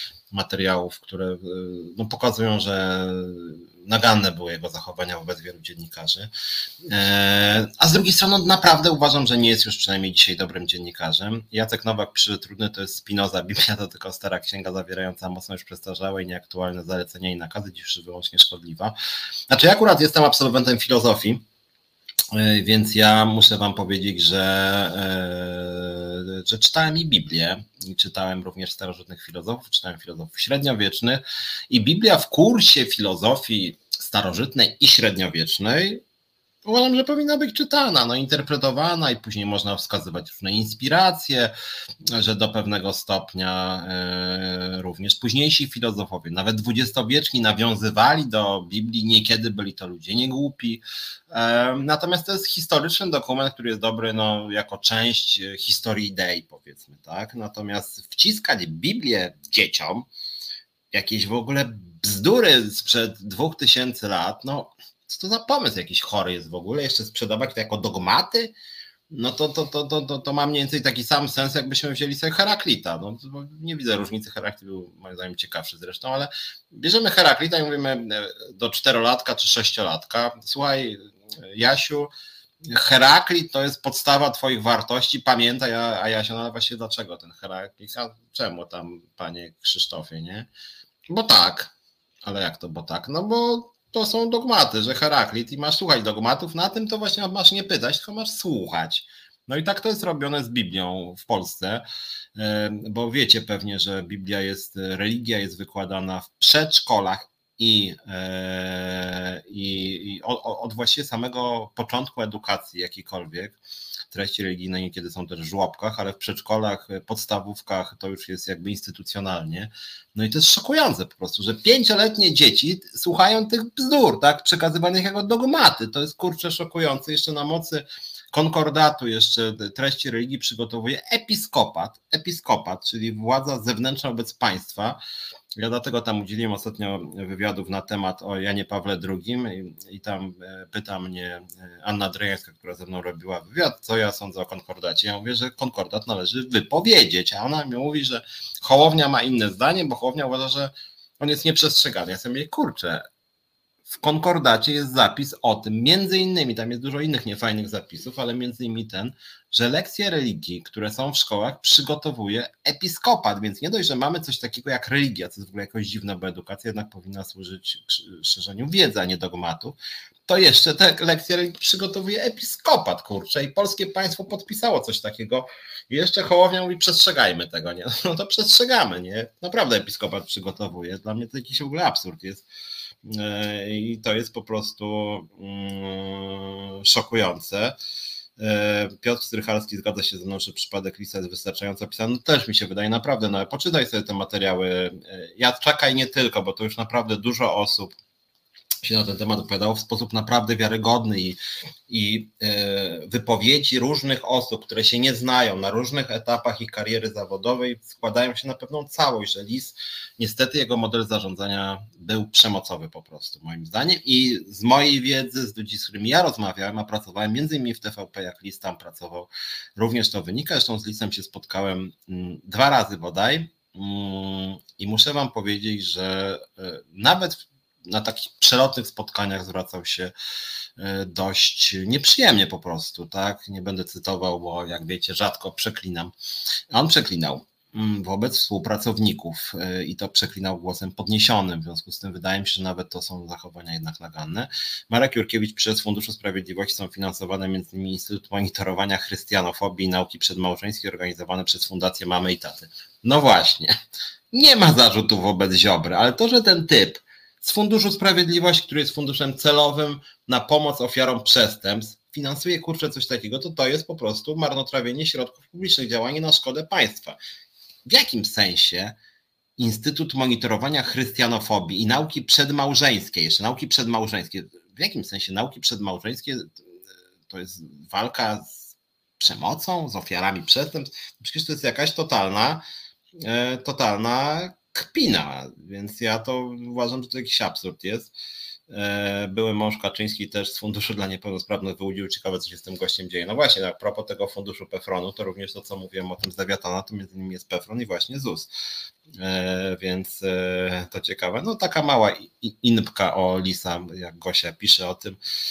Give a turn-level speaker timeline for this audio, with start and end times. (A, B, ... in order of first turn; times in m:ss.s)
0:00.3-0:06.3 A
0:06.8-0:19.0 A
0:19.5-0:21.4 A
0:22.3-0:36.0 A
0:36.6-0:41.5 A
0:42.1-1:00.1 A
1:00.9-1:08.6 A
1:09.1-1:22.1 A
1:22.7-1:30.5 A
1:31.1-1:31.7 A
1:32.2-1:41.8 A
1:42.4-1:53.6 A
1:54.1-2:15.0 A
2:15.6-2:33.0 A
2:33.9-2:49.8 A
2:50.3-3:02.5 A
3:03.0-3:07.8 A
3:08.4-3:18.0 A
3:18.8-3:50.1 A
3:50.8-3:56.1 A
3:56.7-4:13.7 A
4:14.3-4:27.2 A
4:27.9-4:29.0 A
4:29.6-4:36.6 A
4:37.3-4:42.6 A
4:43.2-4:48.1 A
4:48.7-4:58.5 A
4:59.1-5:05.2 A